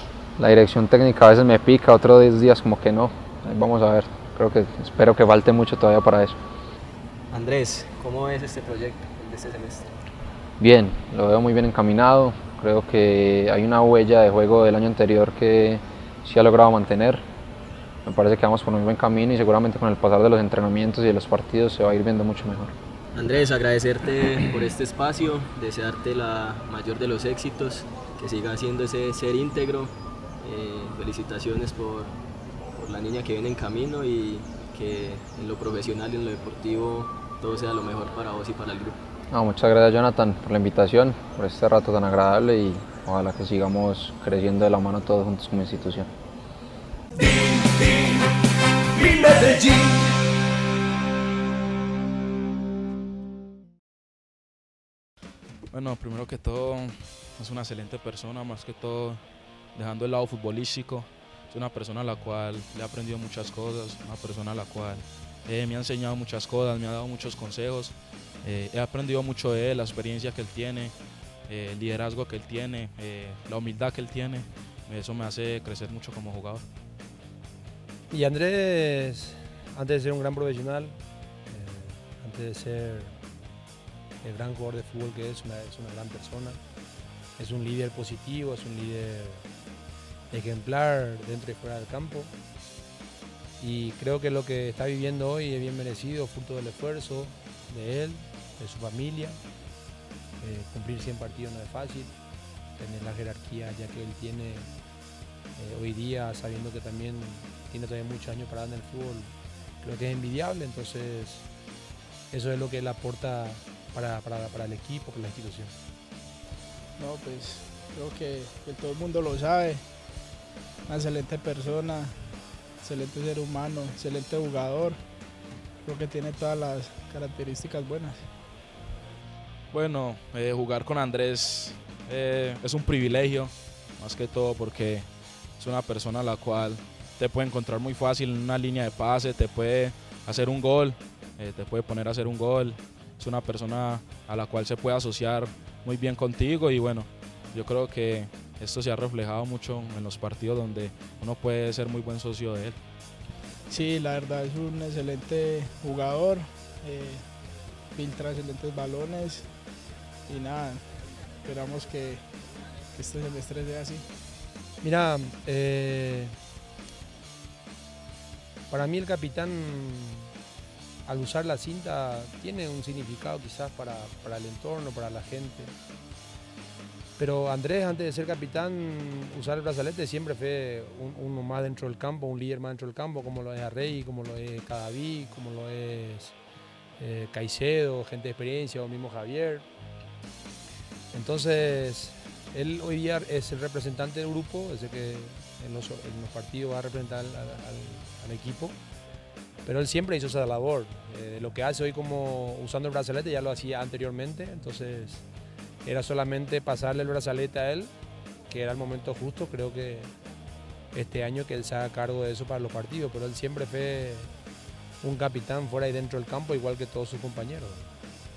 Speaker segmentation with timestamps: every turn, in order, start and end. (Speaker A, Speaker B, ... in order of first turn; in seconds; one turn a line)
Speaker A: 0.4-6.3
Speaker B: 7.3-9.9
Speaker A: 10.6-17.2
Speaker A: 18.0-22.7
Speaker B: 23.1-32.2
Speaker B: 32.8-39.0
Speaker A: 39.3-46.1
Speaker C: 55.7-56.8
Speaker C: 57.5-59.1
Speaker C: 59.9-65.0
Speaker C: 65.5-67.9
Speaker C: 68.5-70.9
Speaker C: 71.5-76.6
Speaker D: 78.1-81.0
Speaker D: 81.5-83.1
Speaker D: 84.2-86.6
Speaker D: 87.4-89.4
Speaker D: 90.3-92.3
Speaker D: 93.6-99.4
Speaker D: 100.4-102.1
Speaker D: 102.8-104.7
Speaker D: 105.6-111.5
Speaker D: 112.3-115.7
Speaker E: 117.0-119.8
Speaker E: 120.8-125.0
Speaker E: 125.8-128.3
Speaker C: 129.7-133.5
Speaker C: 134.0-135.0
Speaker C: 135.6-136.8
Speaker C: 137.3-147.1
Speaker C: 147.6-152.7
Speaker E: 153.7-157.3
Speaker E: 157.9-159.5
Speaker E: 160.3-160.8
Speaker E: 161.4-162.3
Speaker E: 162.9-164.1
Speaker D: 164.8-166.3
Speaker D: 168.7-170.3
Speaker D: 171.1-175.7
Speaker D: 177.2-186.4
Speaker D: 187.0-189.7
Speaker D: 191.1-198.8
Speaker D: 199.6-205.2
Speaker D: 205.8-207.9
Speaker D: 208.5-210.1
Speaker D: 210.9-214.3
Speaker D: 215.0-217.9